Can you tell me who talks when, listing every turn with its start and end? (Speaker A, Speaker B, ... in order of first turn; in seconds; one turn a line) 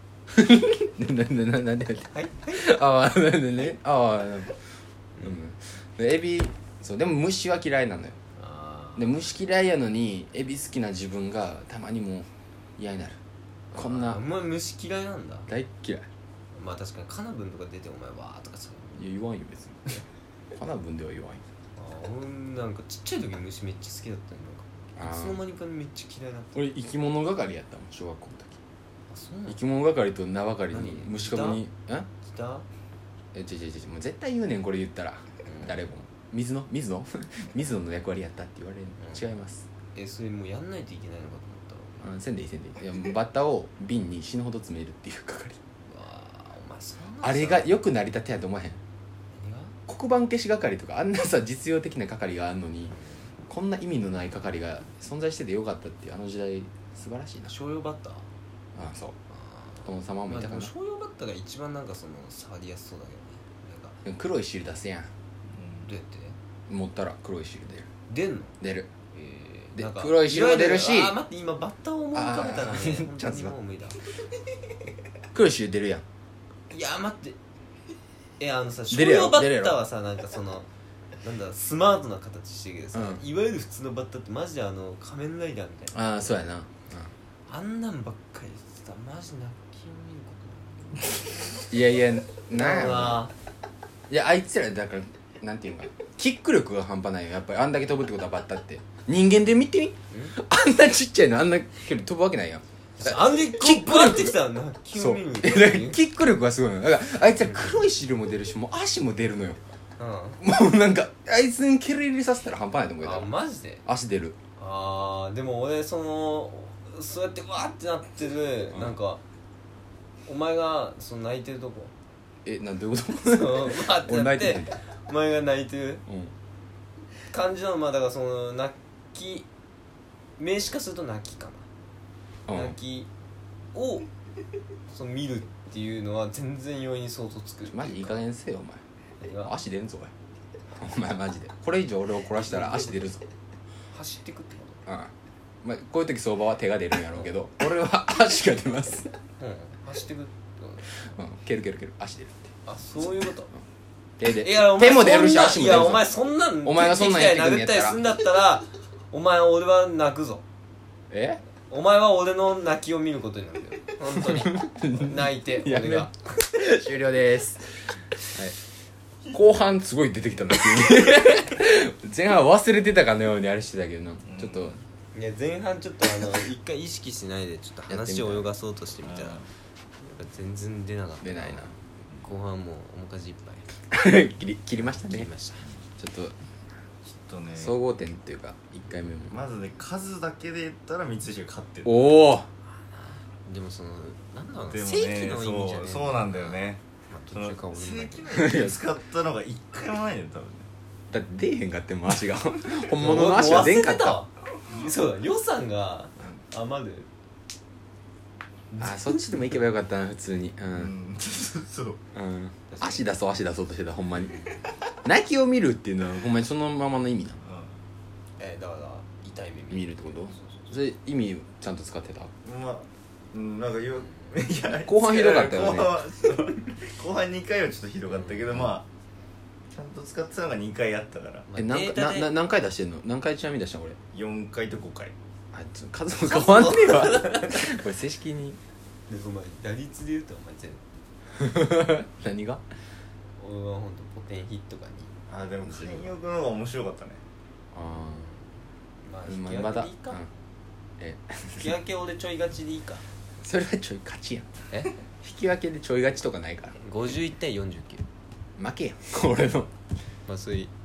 Speaker A: 0.3-4.6
Speaker B: 2.1-2.8
Speaker A: 5.2-8.2
Speaker B: 8.4-9.1
Speaker A: 9.0-13.2
Speaker B: 13.7-15.5
Speaker A: 13.7-14.2
Speaker A: 15.5-16.1
Speaker B: 16.5-19.0
Speaker A: 19.0-20.0
Speaker A: 20.6-21.4
Speaker B: 21.8-26.6
Speaker A: 25.0-25.4
Speaker A: 26.6-28.6
Speaker B: 29.1-29.6
Speaker A: 29.5-32.1
Speaker B: 30.7-31.6
Speaker B: 32.2-32.7
Speaker A: 33.3-39.6
Speaker B: 35.5-35.8
Speaker B: 40.0-42.0
Speaker A: 42.0-45.6
Speaker B: 45.9-47.7
Speaker A: 47.2-48.8
Speaker B: 49.3-49.8
Speaker A: 49.9-53.0
Speaker B: 52.9-53.3
Speaker A: 53.5-57.5
Speaker B: 57.5-58.3
Speaker A: 58.8-59.2
Speaker B: 59.4-64.0
Speaker A: 59.9-60.7
Speaker A: 64.0-65.1
Speaker C: 65.5-65.8
Speaker B: 65.9-66.4
Speaker A: 66.7-67.9
Speaker B: 68.1-68.5
Speaker A: 68.6-68.9
Speaker B: 69.1-74.0
Speaker A: 69.8-71.2
Speaker A: 72.1-73.5
Speaker A: 75.3-76.0
Speaker B: 76.7-77.4
Speaker B: 78.4-80.7
Speaker A: 78.9-79.8
Speaker B: 81.2-86.4
Speaker A: 82.9-83.2
Speaker A: 85.9-87.1
Speaker B: 87.5-91.6
Speaker A: 91.7-93.2
Speaker B: 92.5-93.3
Speaker A: 94.1-104.4
Speaker B: 103.0-106.0
Speaker A: 105.0-109.6
Speaker B: 107.4-107.8
Speaker B: 110.0-110.4
Speaker A: 110.4-113.3
Speaker B: 113.0-113.8
Speaker A: 113.8-114.4
Speaker B: 114.6-119.2
Speaker B: 120.3-121.9
Speaker A: 122.5-124.8
Speaker B: 123.2-126.0
Speaker A: 126.1-126.3
Speaker B: 127.3-129.5
Speaker B: 130.4-131.7
Speaker A: 132.5-132.8
Speaker B: 132.5-133.1
Speaker B: 133.7-134.1
Speaker B: 134.9-138.2
Speaker A: 137.7-138.8
Speaker B: 139.2-139.5
Speaker A: 139.3-140.1
Speaker A: 140.8-143.2
Speaker B: 142.4-142.9
Speaker B: 143.9-144.8
Speaker A: 144.9-149.1
Speaker B: 149.4-150.8
Speaker A: 151.1-152.5
Speaker B: 152.7-153.5
Speaker A: 154.2-158.0
Speaker B: 154.3-160.4
Speaker A: 161.1-161.4
Speaker B: 161.7-166.7
Speaker A: 164.3-167.7
Speaker A: 168.3-168.6
Speaker A: 169.3-174.8
Speaker C: 174.2-174.7
Speaker B: 175.1-179.4
Speaker A: 177.9-178.4
Speaker C: 179.0-179.5
Speaker B: 180.0-183.7
Speaker A: 181.2-181.7
Speaker A: 183.9-185.3
Speaker B: 184.8-185.6
Speaker A: 186.0-186.3
Speaker C: 187.1-187.8
Speaker A: 187.6-189.4
Speaker C: 189.3-192.1
Speaker A: 191.8-192.5
Speaker B: 192.9-198.5
Speaker C: 194.7-196.8
Speaker C: 197.3-200.7
Speaker A: 198.3-198.8
Speaker A: 201.1-204.2
Speaker B: 202.9-207.1
Speaker B: 208.7-209.5
Speaker A: 208.8-210.9
Speaker C: 210.7-212.0
Speaker A: 212.1-214.4
Speaker B: 212.7-213.0
Speaker A: 215.0-217.4
Speaker C: 217.4-217.7
Speaker B: 218.4-220.7
Speaker A: 219.7-222.3
Speaker C: 222.4-228.9
Speaker A: 224.7-226.0
Speaker B: 228.1-228.5
Speaker C: 229.7-231.5
Speaker B: 231.5-232.3
Speaker A: 231.6-234.0
Speaker C: 234.1-235.2
Speaker A: 235.5-238.6
Speaker B: 236.2-237.8
Speaker B: 239.1-240.8
Speaker A: 241.3-242.6
Speaker B: 243.4-245.1
Speaker C: 245.3-247.2
Speaker A: 247.7-248.3
Speaker B: 247.9-248.5
Speaker B: 249.0-250.2
Speaker A: 249.3-250.3
Speaker A: 251.0-251.8
Speaker B: 251.6-253.1
Speaker A: 253.4-254.5
Speaker A: 255.2-256.8
Speaker B: 256.8-258.0
Speaker A: 258.6-259.7
Speaker B: 260.3-260.7